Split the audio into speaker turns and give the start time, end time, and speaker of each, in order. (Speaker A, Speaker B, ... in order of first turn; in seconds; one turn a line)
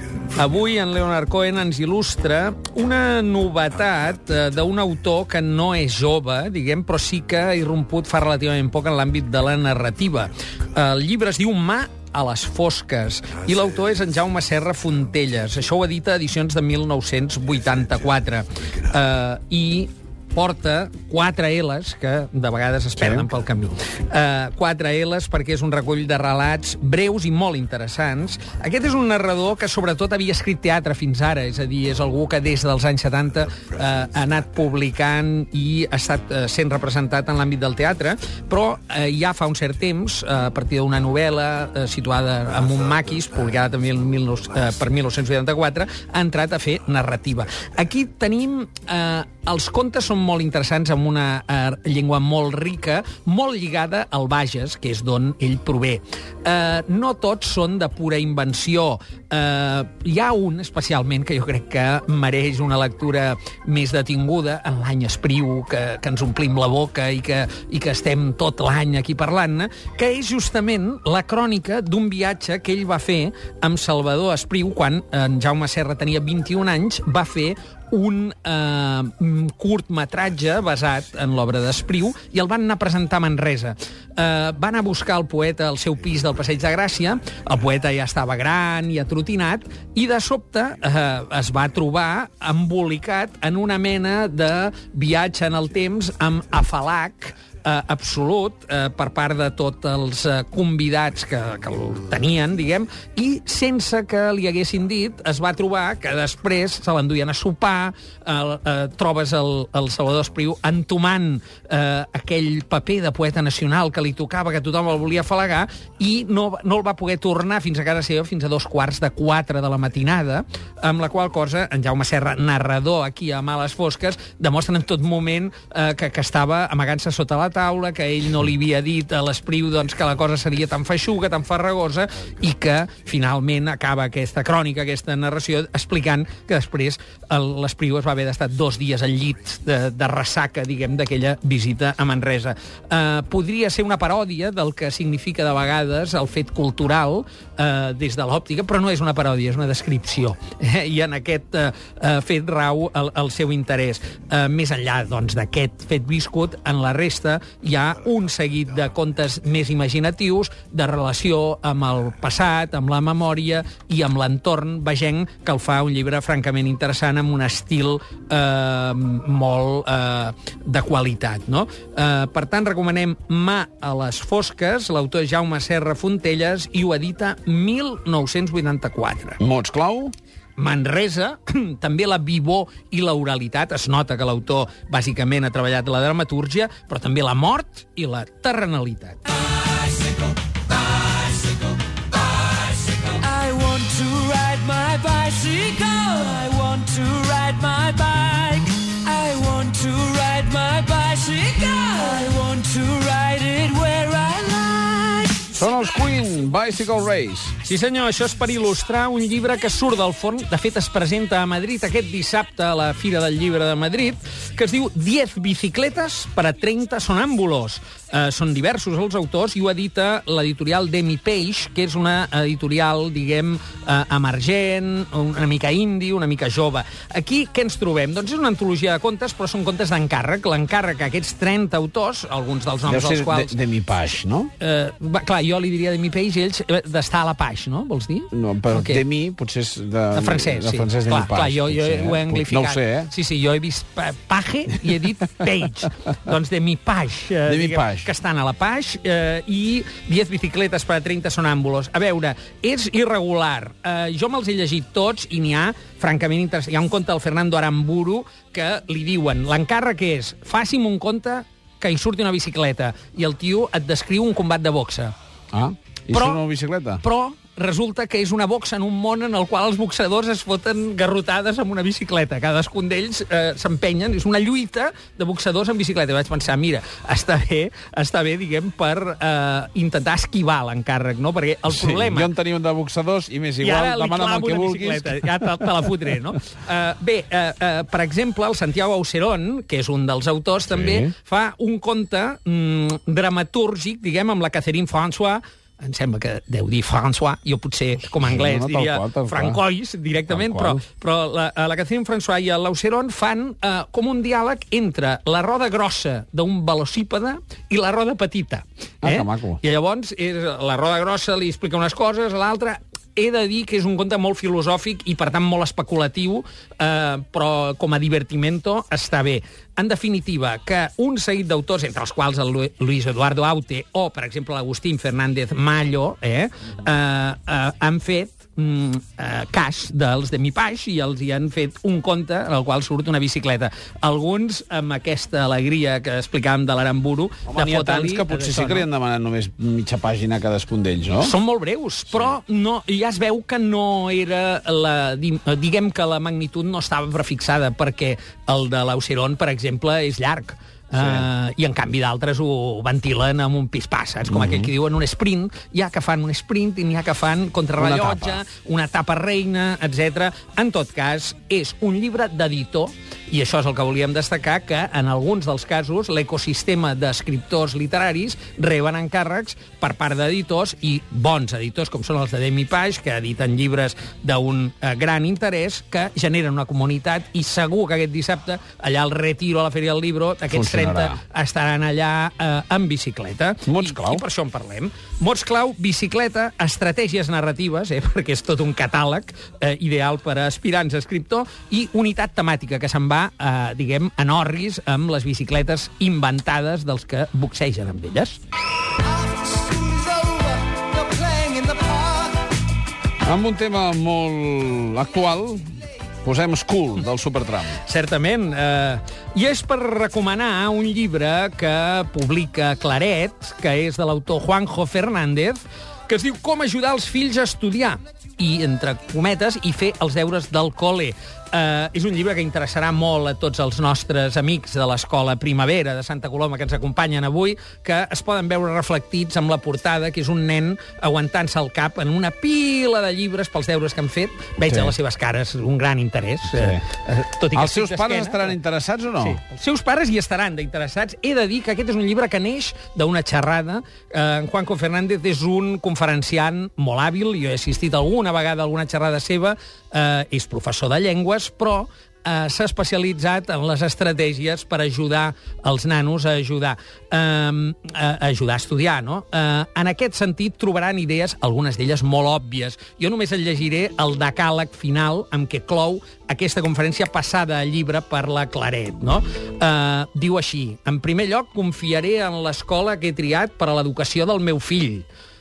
Speaker A: 0.2-179.4
Speaker B: 23.0-23.3
Speaker B: 179.4-180.1
Speaker A: 180.6-189.5
Speaker C: 189.5-205.5
Speaker B: 205.5-207.6
Speaker A: 207.6-233.6
Speaker B: 232.8-234.5
Speaker A: 234.6-239.0
Speaker B: 238.3-243.1
Speaker A: 240.1-265.1
Speaker B: 247.4-248.1
Speaker B: 265.5-267.0
Speaker A: 266.1-266.4
Speaker A: 267.0-282.3
Speaker B: 281.7-285.6
Speaker A: 283.6-338.9
Speaker B: 290.7-291.1
Speaker B: 298.2-299.6
Speaker B: 300.3-300.8
Speaker B: 309.0-309.6
Speaker B: 337.5-341.3
Speaker A: 341.2-398.4
Speaker B: 350.9-351.3
Speaker B: 354.3-354.7
Speaker B: 357.8-358.4
Speaker B: 380.5-381.2
Speaker B: 383.6-384.2
Speaker C: 399.1-402.5
Speaker B: 403.2-407.8
Speaker A: 407.8-438.6
Speaker B: 434.7-434.9
Speaker B: 436.5-436.8
Speaker B: 437.5-439.4
Speaker A: 439.2-475.1